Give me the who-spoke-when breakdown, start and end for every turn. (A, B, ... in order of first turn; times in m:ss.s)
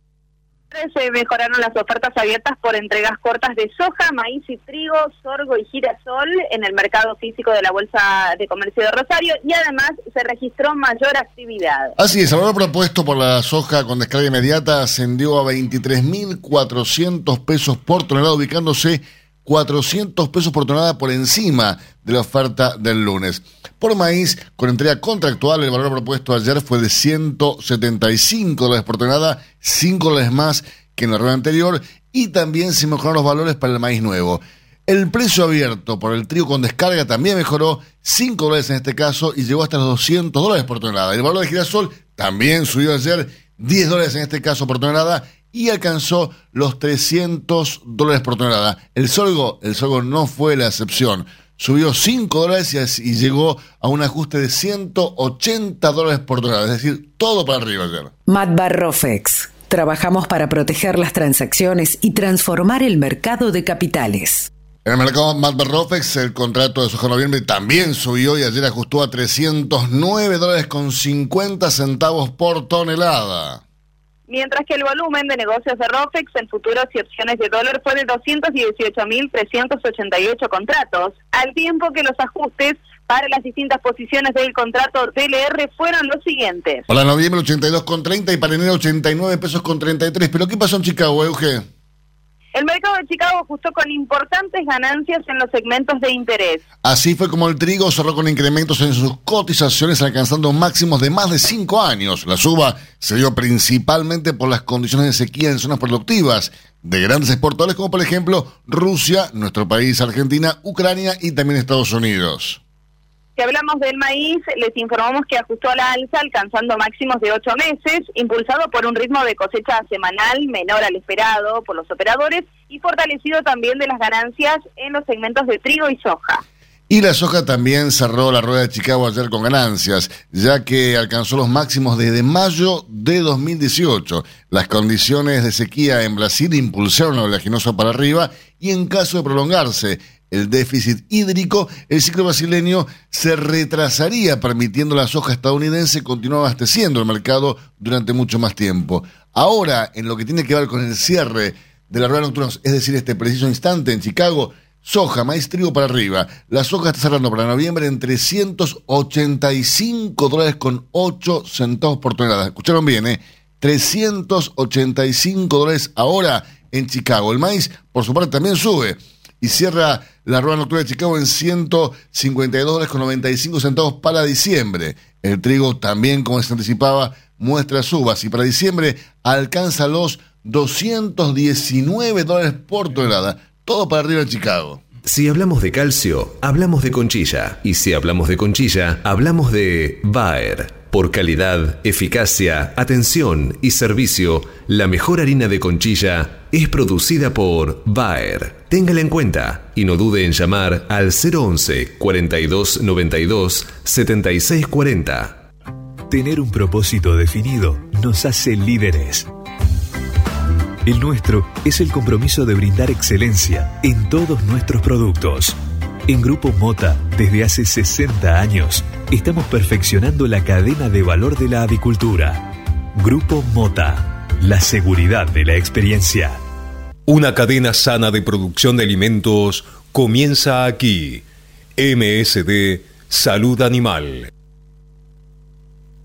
0:00.7-0:11.9 A
0:12.0-0:58.1 B
0:58.2-1:04.5 C
1:04.8-1:13.6 B
1:14.3-1:26.8 A
1:26.9-1:31.6 B
1:32.5-1:36.6 A
1:36.8-1:52.6 B
1:53.4-2:06.4 A
2:06.9-3:04.8 B
3:05.0-3:25.4 D
3:26.1-3:29.3 E
3:30.8-3:35.6 E
3:36.1-3:46.4 E
3:47.1-3:51.2 D
3:51.8-3:54.3 D